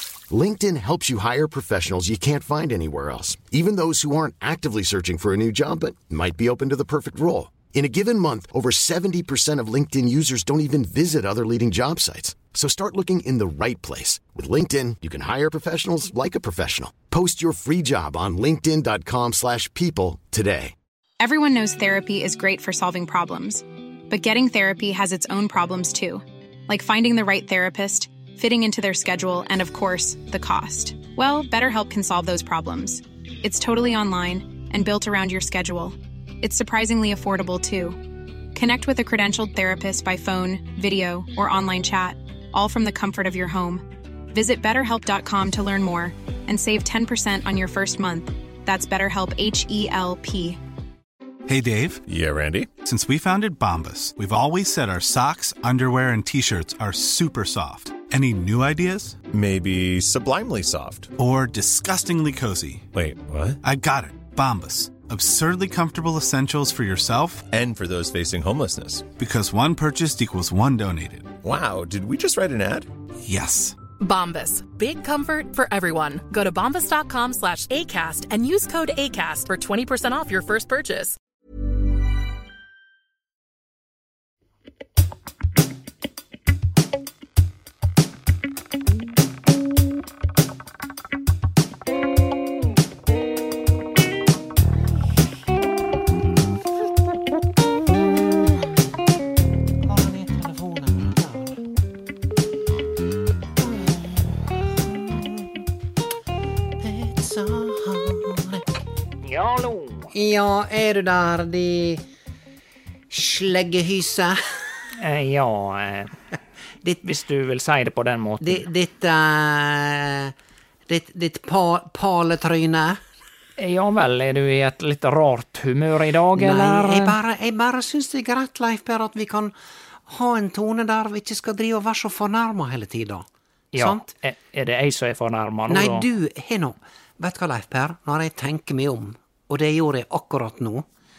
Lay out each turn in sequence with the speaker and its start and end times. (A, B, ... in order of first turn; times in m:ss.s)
0:00.3-0:20.7 A
0:21.2-0:38.0 B
0:38.5-0:50.6 B
0:51.5-0:52.0 C
0:52.1-0:52.7 D
0:52.8-0:59.2 C
0:59.3-1:01.1 D
1:01.2-1:02.9 C
1:02.9-1:03.6 D
1:03.6-1:07.4 C
1:07.5-1:09.1 D
1:09.2-1:11.3 C
1:11.4-1:12.9 D
1:13.2-1:13.8 C
1:14.0-1:21.2 E
1:39.8-1:41.6 F
1:43.6-1:45.5 F
1:46.8-1:48.6 F
1:49.2-1:50.1 G
1:50.1-1:52.0 F
1:53.1-1:54.4 F
1:54.9-1:56.2 G
1:57.0-1:58.6 G
1:58.4-2:00.3 F
2:00.9-2:03.0 F
2:03.6-2:07.2 G
2:06.4-2:09.5 F
2:10.1-2:13.2 F
2:13.7-2:16.0 G
2:13.8-2:14.1 F
2:15.7-2:20.8 F